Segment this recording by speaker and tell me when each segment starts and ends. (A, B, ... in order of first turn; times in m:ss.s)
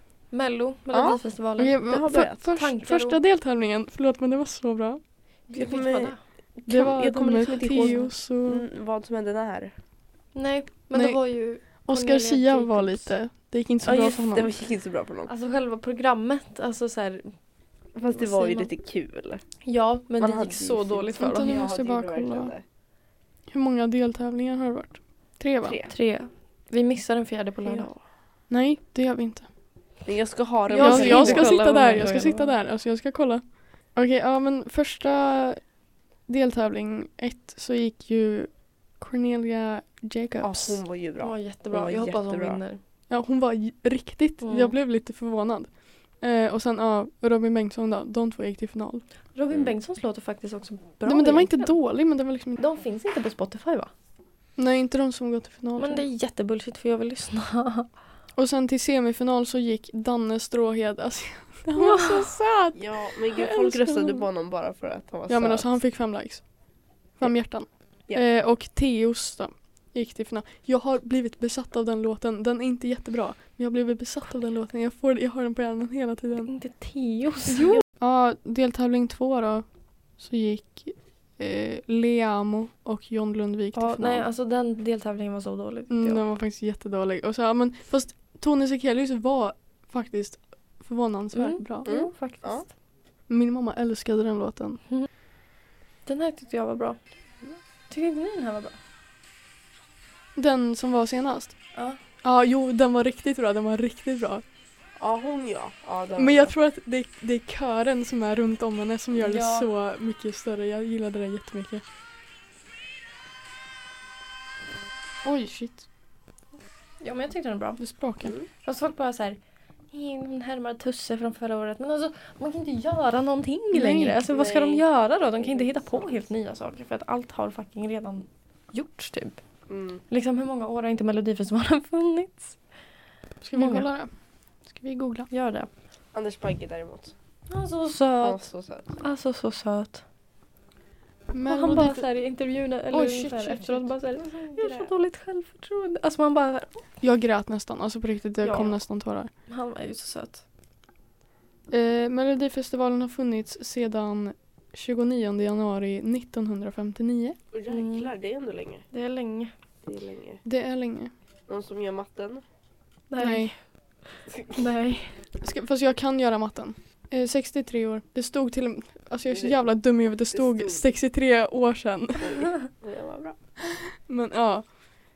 0:00.3-0:01.8 A
0:00.9-0:01.2 B
0:01.6-0:05.0 C
0:01.9-0:02.4 B
0:02.5-0:03.2 A
0:05.5-0:06.2 A
0:05.5-0:09.7 B
0:06.7-0:08.6 C
0:10.4-0:13.1 A
0:10.9-0:11.2 C
0:11.8-0:14.6 C
0:13.8-0:15.3 B
0:15.3-0:17.3 A
0:18.0-0:19.4 B
0:18.1-0:18.7 A
0:19.6-0:21.6 A
0:20.2-0:22.6 B
0:21.2-0:22.5 C
0:23.5-0:25.8 C
0:25.6-0:25.9 B
0:25.9-0:28.0 A
0:27.6-0:27.9 B
0:28.5-0:29.5 C
0:30.0-0:31.6 B
0:30.7-0:32.5 A
0:30.8-0:35.6 C
0:36.3-0:40.8 C
0:40.4-0:42.6 B
0:41.2-0:42.8 A
0:43.1-0:49.0 C
0:44.4-0:44.8 A
0:49.3-0:51.7 A
0:51.0-0:52.6 C
0:52.6-0:53.9 A
0:54.6-0:56.0 C
0:55.8-0:57.9 A
0:58.4-1:04.3 C
1:01.8-1:02.3 A
1:02.8-1:05.7 B
1:05.3-1:06.5 C
1:07.2-1:16.5 C
1:16.4-1:17.8 A
1:18.0-1:19.6 C
1:20.2-1:24.3 C
1:23.7-1:26.2 A
1:25.9-1:31.9 C
1:31.3-1:32.7 A
1:31.8-1:32.6 B
1:33.3-1:34.8 C
1:36.1-1:37.1 A
1:37.9-1:38.8 A
1:40.4-1:41.6 C
1:41.8-1:42.0 A
1:42.2-1:44.4 C
1:45.0-1:46.5 B
1:46.2-1:51.8 C
1:49.1-1:49.7 A
1:55.2-1:55.8 C
1:57.0-1:57.8 A
1:57.8-1:58.4 C
1:58.6-1:59.4 A
1:59.9-2:09.4 A
2:03.7-2:04.2 C
2:04.3-2:04.9 B
2:05.4-2:06.3 B
2:09.7-2:10.0 B
2:10.1-2:12.6 A
2:13.4-2:14.1 C
2:13.6-2:13.9 A
2:14.7-2:15.3 C
2:15.3-2:15.7 A
2:16.1-2:17.2 B
2:17.5-2:18.5 A
2:18.2-2:19.0 B
2:19.0-2:20.0 A
2:21.3-2:22.1 C
2:21.4-2:26.8 A
2:22.9-2:23.9 C
2:24.5-2:24.9 B
2:27.0-2:29.3 C
2:28.4-2:28.8 A
2:29.5-2:30.4 A
2:31.7-2:37.4 C
2:37.5-2:38.8 B
2:37.7-2:38.1 A
2:38.9-2:39.5 A
2:39.8-2:40.4 B
2:40.4-2:41.1 C
2:41.5-2:42.4 B
2:43.1-2:43.6 A
2:43.2-2:43.5 C
2:44.4-2:45.2 A
2:45.4-2:52.5 C
2:49.3-2:49.6 B
2:50.3-2:50.9 B
2:52.2-2:53.4 B
2:54.0-2:54.8 C